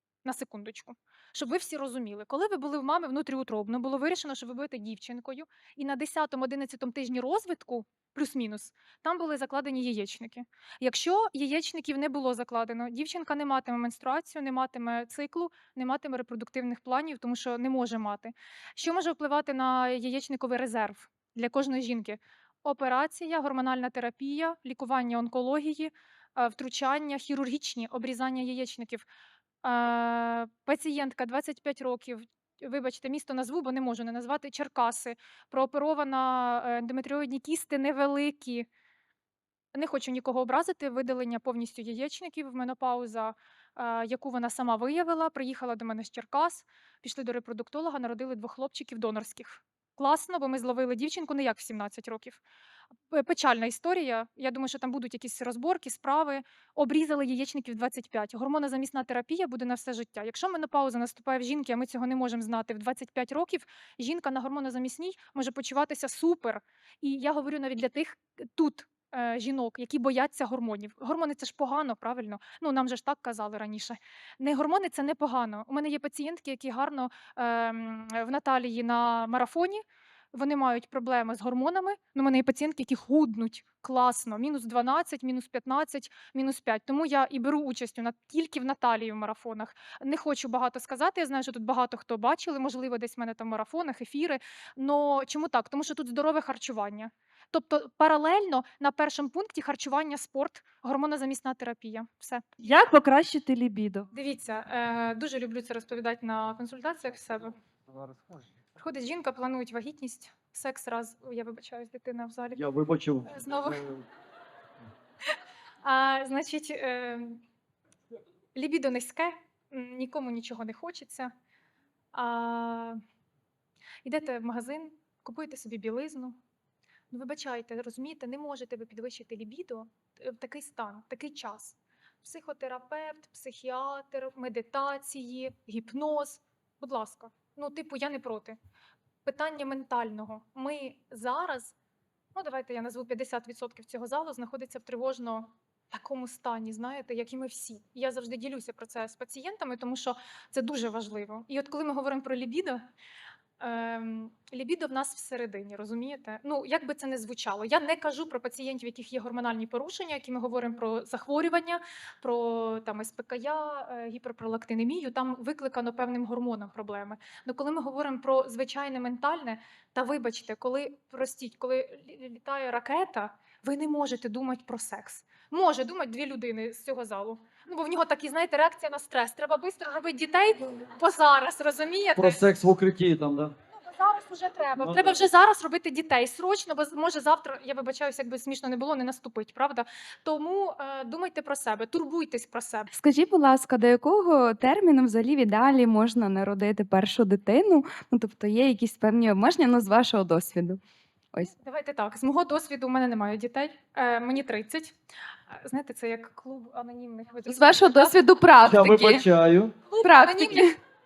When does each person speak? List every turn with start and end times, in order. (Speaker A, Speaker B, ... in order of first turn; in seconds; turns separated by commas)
Speaker A: 0.2-29.0, Speaker A: 29.6-38.7, Speaker A: 39.7-52.4, Speaker A: 53.1-102.4, Speaker B: 102.6-104.1, Speaker A: 104.1-107.5, Speaker A: 108.8-112.6, Speaker C: 112.5-114.0, Speaker A: 113.3-113.8, Speaker A: 115.8-117.4, Speaker A: 118.5-121.3, Speaker A: 122.1-123.0, Speaker A: 124.0-126.3, Speaker A: 127.1-138.6, Speaker A: 139.2-141.7, Speaker A: 142.3-152.8, Speaker A: 153.6-182.4, Speaker C: 182.2-183.5, Speaker A: 183.7-192.9, Speaker C: 184.8-185.2, Speaker B: 192.9-200.8, Speaker A: 201.4-204.9, Speaker A: 205.5-208.2, Speaker B: 207.5-209.2, Speaker C: 208.6-209.7, Speaker A: 209.9-210.7, Speaker B: 210.0-210.8